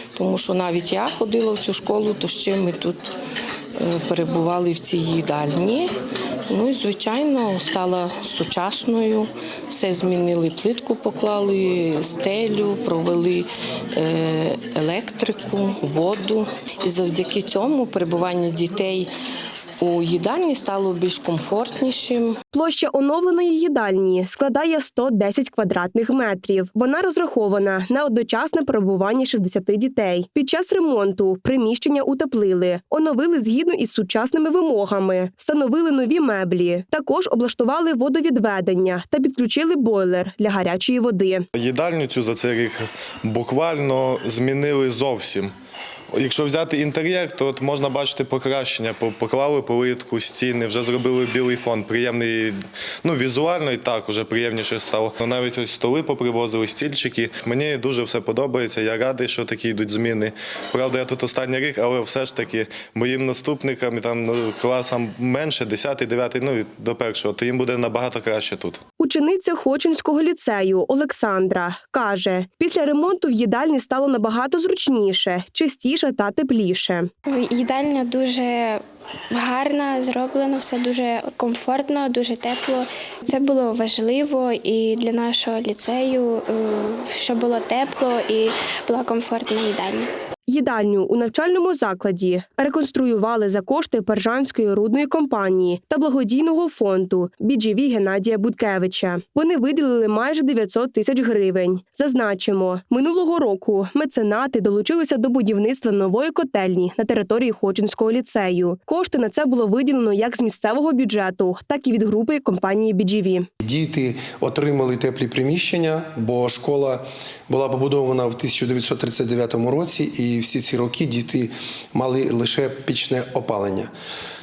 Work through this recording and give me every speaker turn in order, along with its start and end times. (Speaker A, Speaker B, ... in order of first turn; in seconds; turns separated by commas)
Speaker A: 0.1-3.1, Speaker A: 3.8-5.9, Speaker A: 6.5-19.1, Speaker A: 19.8-22.4, Speaker B: 22.5-41.5, Speaker C: 41.5-45.5, Speaker C: 46.1-68.8, Speaker B: 69.0-77.1, Speaker D: 77.3-90.1, Speaker B: 90.5-113.5, Speaker E: 113.6-123.9